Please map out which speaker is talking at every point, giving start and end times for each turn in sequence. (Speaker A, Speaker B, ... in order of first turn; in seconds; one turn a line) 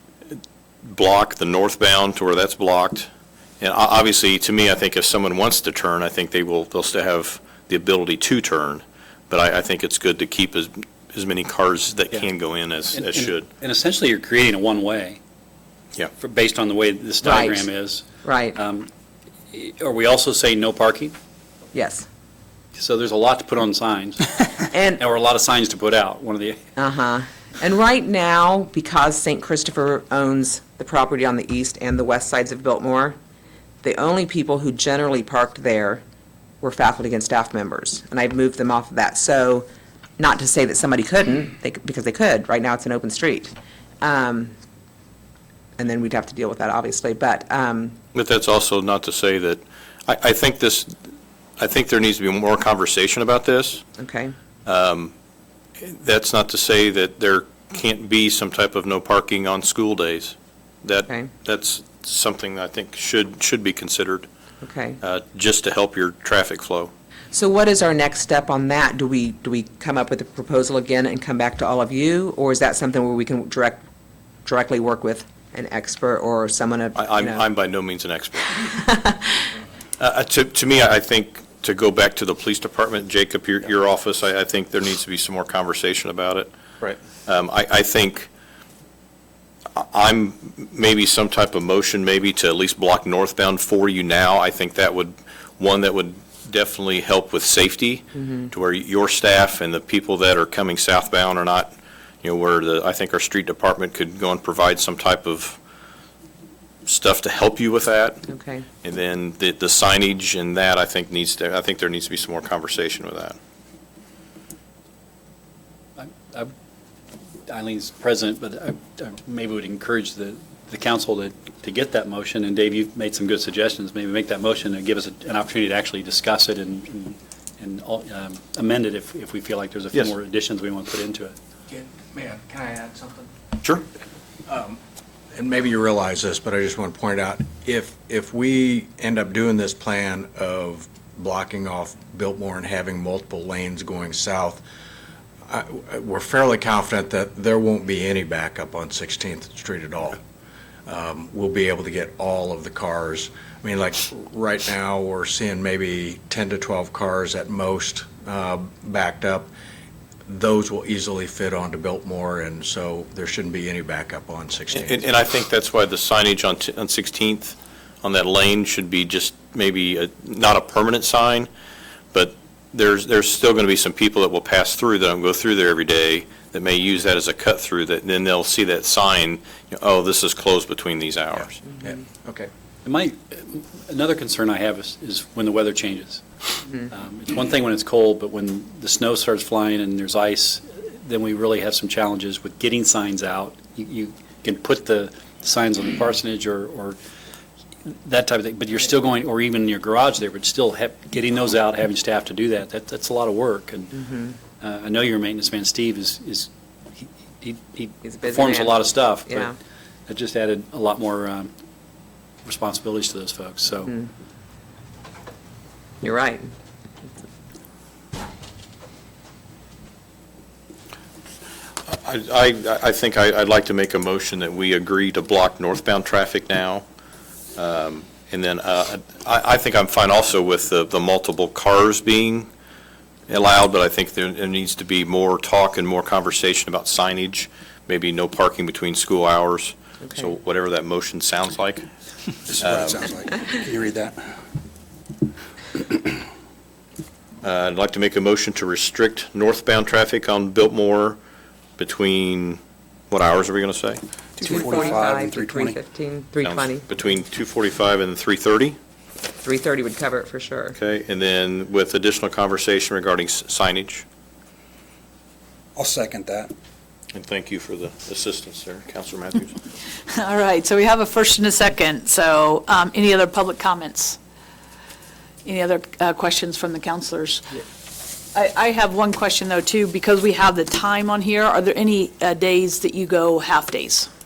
Speaker A: 0.3-3.1
Speaker A: 3.6-13.5
Speaker B: 12.9-15.2
Speaker B: 16.2-18.9
Speaker C: 17.2-17.7
Speaker C: 18.2-18.6
Speaker B: 19.5-21.1
Speaker C: 21.7-22.1
Speaker B: 22.8-26.6
Speaker C: 24.7-25.0
Speaker C: 26.8-33.2
Speaker C: 33.8-36.0
Speaker C: 36.6-39.7
Speaker C: 40.2-44.5
Speaker C: 45.8-48.0
Speaker A: 48.1-51.0
Speaker A: 51.6-53.8
Speaker C: 54.0-54.3
Speaker A: 54.7-55.1
Speaker A: 55.8-64.3
Speaker C: 64.6-65.0
Speaker A: 65.0-66.9
Speaker C: 67.3-73.8
Speaker C: 74.5-77.4
Speaker A: 77.0-78.9
Speaker C: 78.7-79.5
Speaker A: 80.0-86.5
Speaker A: 87.3-88.3
Speaker A: 89.8-105.6
Speaker C: 98.2-98.5
Speaker A: 106.9-108.2
Speaker C: 108.3-108.7
Speaker A: 108.8-113.4
Speaker B: 116.0-116.5
Speaker B: 117.5-131.3
Speaker D: 131.7-133.3
Speaker D: 134.5-134.8
Speaker D: 135.3-144.6
Speaker D: 145.5-150.2
Speaker D: 150.9-159.5
Speaker D: 160.3-165.0
Speaker A: 164.8-171.5
Speaker A: 172.1-181.6
Speaker D: 181.8-182.5
Speaker B: 182.8-197.0
Speaker B: 197.9-204.0
Speaker C: 204.0-204.3
Speaker B: 204.6-209.6
Speaker C: 208.0-209.5
Speaker B: 210.1-211.5
Speaker B: 212.4-214.0
Speaker C: 216.0-216.5
Speaker A: 221.9-226.8
Speaker A: 227.6-232.5
Speaker A: 233.3-241.8
Speaker E: 242.5-244.2
Speaker A: 242.6-243.1
Speaker A: 247.4-251.2
Speaker A: 251.8-254.0
Speaker E: 254.4-255.8
Speaker C: 254.4-256.9
Speaker A: 256.4-258.8
Speaker C: 259.4-260.8
Speaker A: 260.7-264.1
Speaker E: 265.8-266.5
Speaker A: 267.1-269.6
Speaker F: 270.1-274.2
Speaker F: 275.4-277.6
Speaker F: 278.3-284.1